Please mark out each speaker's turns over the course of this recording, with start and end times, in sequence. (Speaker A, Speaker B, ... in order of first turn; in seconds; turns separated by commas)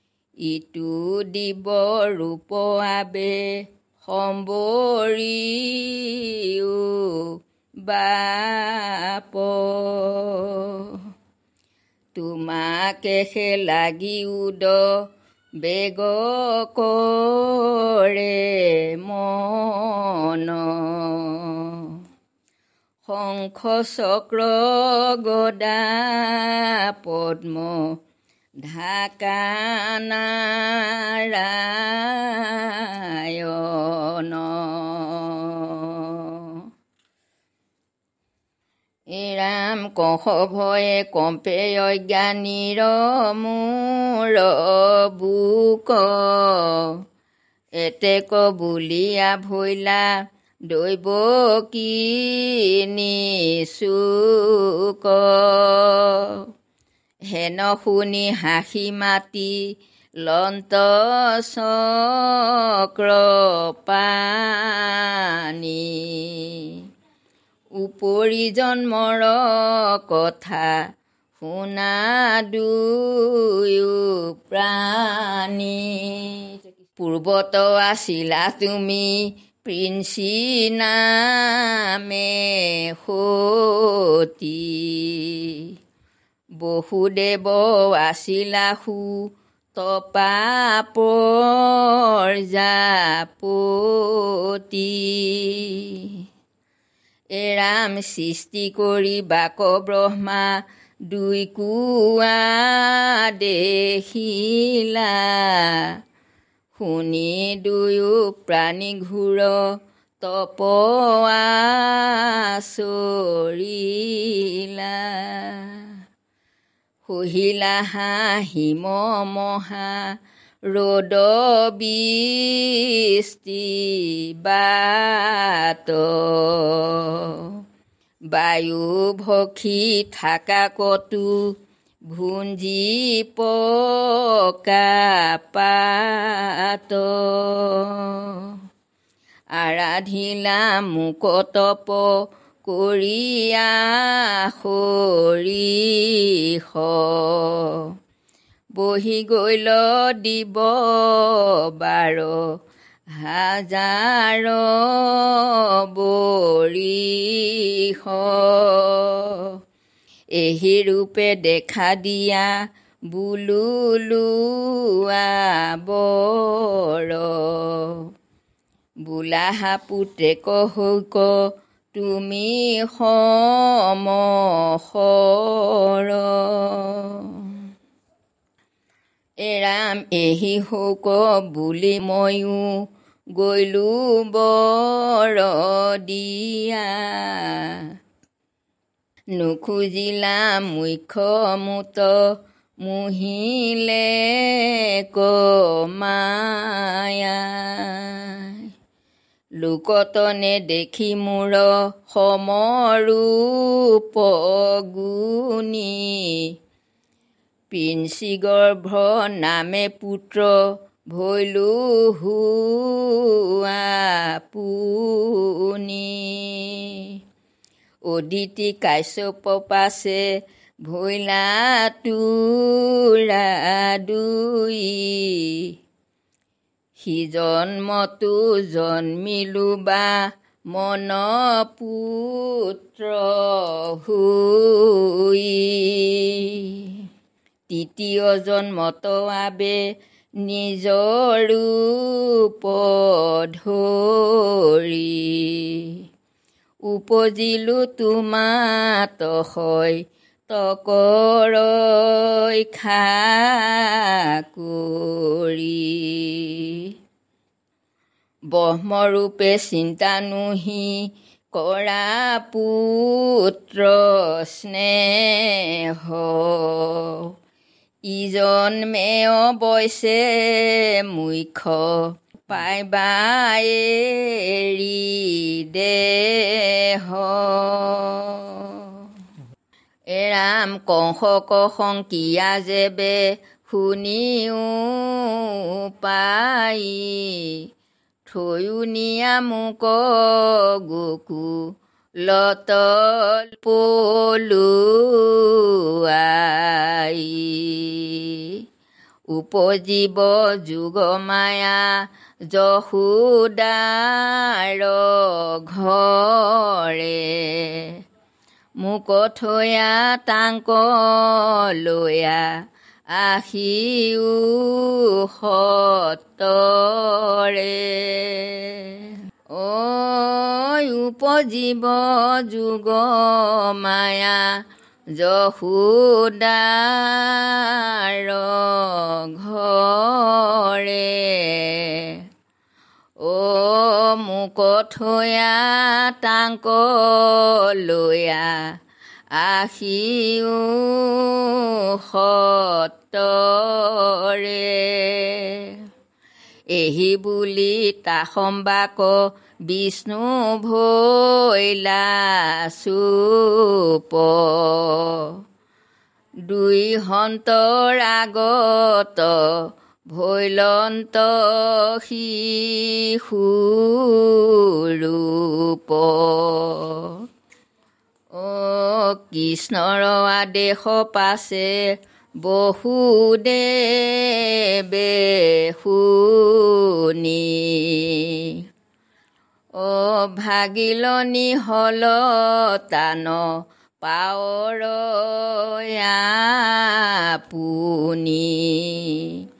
Speaker A: 0.4-3.5, Speaker A: 4.0-11.0, Speaker A: 12.2-14.9, Speaker A: 15.6-22.0, Speaker A: 23.1-27.9, Speaker A: 28.6-36.6, Speaker A: 39.1-47.0, Speaker A: 47.8-50.1, Speaker A: 50.7-56.4, Speaker A: 57.3-59.6, Speaker A: 60.2-66.8, Speaker A: 67.8-70.8, Speaker A: 71.4-79.1, Speaker A: 79.6-85.7, Speaker A: 86.6-96.2, Speaker A: 97.3-105.9, Speaker A: 106.8-109.6, Speaker A: 110.2-115.9, Speaker A: 117.1-120.1, Speaker A: 120.7-127.6, Speaker A: 128.3-131.4, Speaker A: 132.1-138.6, Speaker A: 139.6-142.1, Speaker A: 142.6-147.9, Speaker A: 148.8-152.4, Speaker A: 153.2-159.5, Speaker A: 160.4-162.5, Speaker A: 163.1-168.1, Speaker A: 169.1-171.3, Speaker A: 171.9-177.6, Speaker A: 179.4-182.7, Speaker A: 183.3-187.8, Speaker A: 189.3-192.2, Speaker A: 192.8-198.7, Speaker A: 199.6-206.5, Speaker A: 207.7-210.6, Speaker A: 211.1-217.2, Speaker A: 218.1-220.3, Speaker A: 220.8-225.7, Speaker A: 227.0-237.0, Speaker A: 237.7-239.8, Speaker A: 240.4-246.0, Speaker A: 246.9-256.9, Speaker A: 258.5-267.3, Speaker A: 268.1-279.1, Speaker A: 280.1-287.6, Speaker A: 288.3-291.6, Speaker A: 292.2-298.6, Speaker A: 299.3-301.9, Speaker A: 302.5-308.0, Speaker A: 308.8-312.5, Speaker A: 313.1-324.6, Speaker A: 325.1-332.2, Speaker A: 333.2-338.7, Speaker A: 339.3-345.8, Speaker A: 346.7-355.4, Speaker A: 356.5-367.2, Speaker A: 368.3-371.8, Speaker A: 372.4-378.6, Speaker A: 379.8-383.5, Speaker A: 384.0-389.4